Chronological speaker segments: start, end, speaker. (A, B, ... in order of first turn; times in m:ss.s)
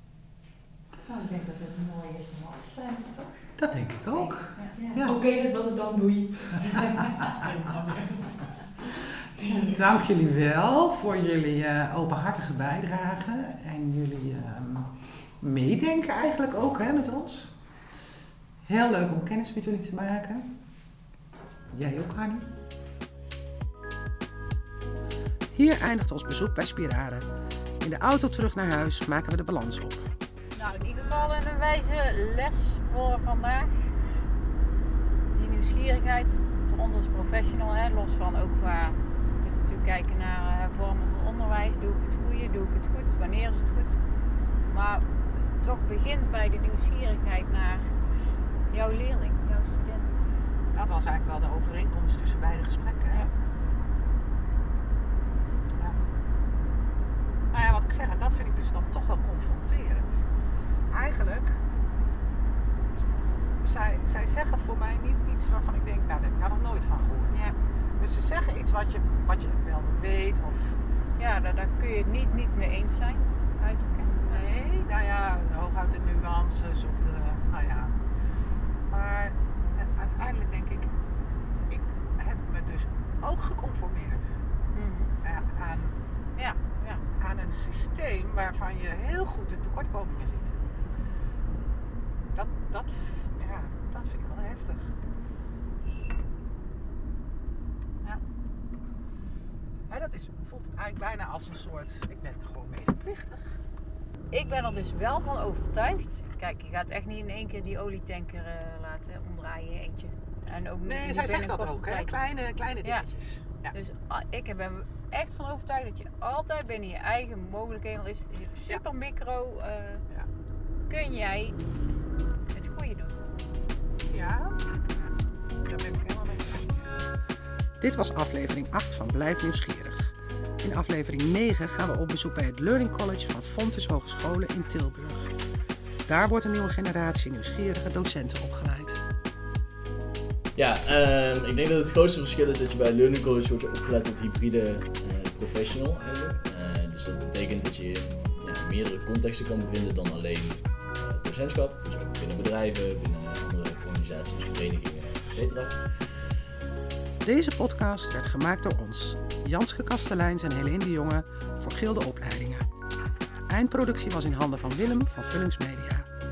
0:01.0-0:05.0 A
0:03.6-0:05.2 B
0:04.4-0:09.8 C
0:09.5-0:17.5 B
0:18.6-0:20.5 B
0:21.7-0:22.5 B
0:25.5-0:27.3 B
0:27.8-0:30.1 B
0:30.5-0:34.0 D
0:35.3-0:44.0 D
0:44.7-0:48.0 D
0:48.7-0:50.2 D
0:50.7-0:53.3 B
0:57.5-1:00.3 B
1:00.9-1:01.6 B
1:03.6-1:07.5 B
1:07.3-1:07.6 D
1:08.0-1:10.8 B
1:11.2-1:14.4 D
1:14.2-1:17.9 B
1:18.9-1:20.9 B
1:21.7-1:24.4 B
1:24.7-1:25.1 D
1:25.2-1:26.0 B
1:26.4-1:27.0 D
1:27.2-1:30.6 B
1:32.3-1:34.9 B
1:39.9-1:43.4 B
1:44.3-1:52.1 D
1:50.8-1:53.8 B
1:53.7-2:00.0 D
2:00.9-2:01.6 D
2:02.5-2:03.2 D
2:04.1-2:04.6 B
2:05.6-2:07.0 B
2:07.8-2:15.3 B
2:16.1-2:19.0 B
2:20.6-2:36.3 E
2:37.2-2:42.7 B
2:43.5-2:46.1 B